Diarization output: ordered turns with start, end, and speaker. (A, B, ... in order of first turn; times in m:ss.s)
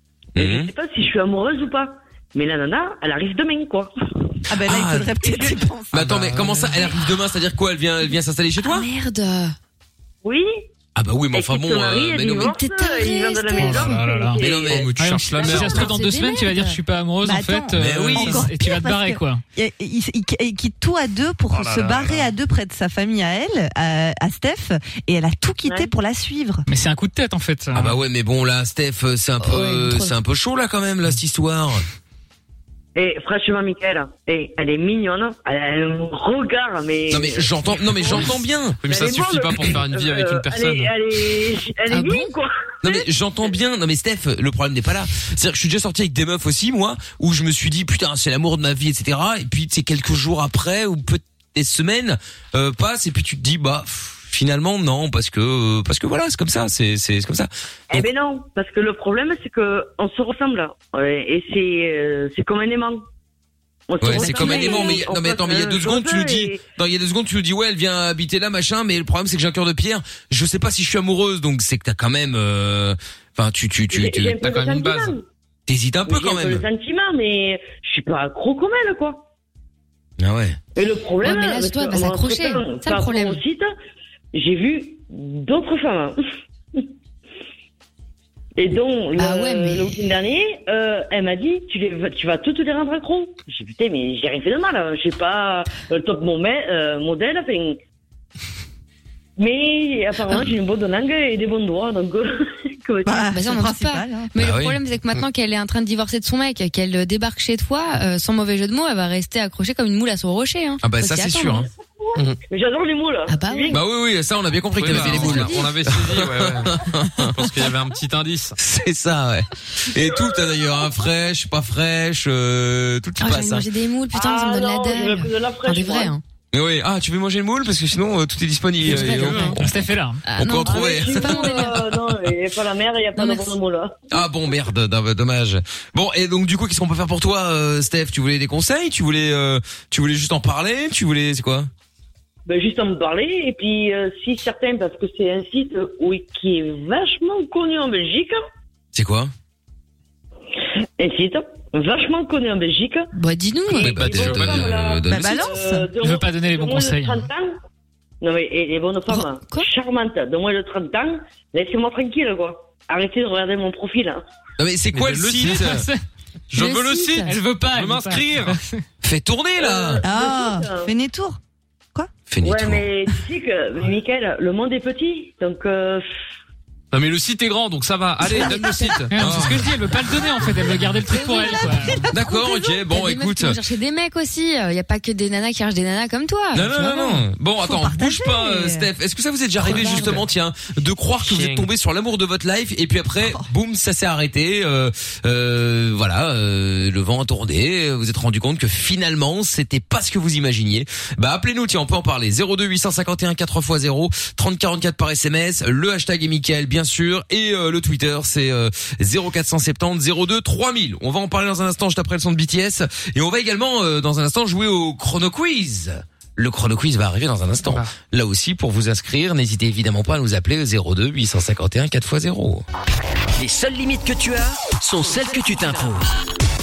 0:00.3-0:00.7 A
0:00.4-0:03.9 B
0:04.5-0:06.2 C
0:04.6-0:08.9 A
0:06.1-0:06.7 D
0:08.6-0:09.5 E
0:10.2-0:10.6 B
0:10.9-0:12.5 A
0:11.3-0:14.8 B
0:12.3-0:14.0 E
0:13.6-0:19.4 F
0:14.4-0:14.9 A
0:14.7-0:15.8 D
0:15.4-0:16.8 E
0:17.2-0:26.6 C
0:17.7-0:18.5 A
0:21.5-0:22.3 F
0:25.6-0:25.9 B
0:26.7-0:28.0 F
0:27.7-0:31.8 A
0:29.4-0:30.1 E
0:32.9-0:43.0 B
0:37.1-0:38.8 A
0:38.0-0:40.9 D
0:41.9-0:42.3 E
0:42.8-0:58.1 A
0:57.9-1:03.0 B
1:03.9-1:06.6 B
1:04.0-1:14.4 A
1:04.1-1:05.0 C
1:13.9-1:15.2 B
1:14.4-1:15.2 D
1:15.7-1:16.6 A
1:16.1-1:19.2 B
1:20.2-1:20.6 A
1:20.8-1:23.7 B
1:21.2-1:23.4 E
1:24.3-1:26.2 B
1:28.6-1:37.8 B
1:29.2-1:30.0 E
1:39.4-1:43.3 B
1:43.0-1:44.3 C
1:43.3-1:51.6 E
1:44.4-1:44.8 A
1:50.8-1:51.7 A
1:52.5-1:53.8 B
1:53.3-1:53.8 E
1:53.7-1:57.4 A
1:54.8-1:58.6 D
1:54.8-1:55.7 E
1:58.6-2:03.6 A
2:03.2-2:06.2 E
2:04.1-2:06.1 B
2:06.5-2:09.8 A
2:08.8-2:09.6 E
2:08.9-2:09.5 D
2:09.3-2:10.2 F
2:10.2-2:11.8 E
2:10.4-2:12.2 A
2:10.6-2:14.0 B
2:13.1-2:13.5 E
2:14.1-2:21.7 A
2:22.4-2:28.4 B
2:28.9-2:29.3 A
2:31.0-2:33.1 B
2:33.1-2:34.0 E
2:33.7-2:35.4 A
2:33.7-2:37.5 B
2:34.0-2:34.7 D
2:35.1-2:35.9 C
2:36.0-2:37.3 F
2:38.2-2:44.2 B
2:39.1-2:39.7 E
2:44.6-2:45.9 A
2:44.9-2:45.8 D
2:45.4-2:46.0 F
2:46.5-2:48.6 D
2:46.5-2:47.3 E
2:47.2-2:48.8 F
2:49.0-2:50.0 A
2:49.6-2:50.9 B
2:50.0-2:51.4 C
2:52.3-2:52.8 A
2:52.4-2:56.0 B
2:56.9-2:59.5 D
2:58.3-2:59.7 A
2:59.1-3:02.0 F
3:01.1-3:07.2 E
3:01.4-3:01.8 C
3:02.1-3:03.6 A
3:06.5-3:42.6 A
3:07.6-3:08.9 C
3:09.7-3:10.0 C
3:09.7-3:10.1 E
3:09.8-3:10.2 D
3:11.2-3:11.7 D
3:37.6-3:37.9 D
3:43.4-3:46.1 G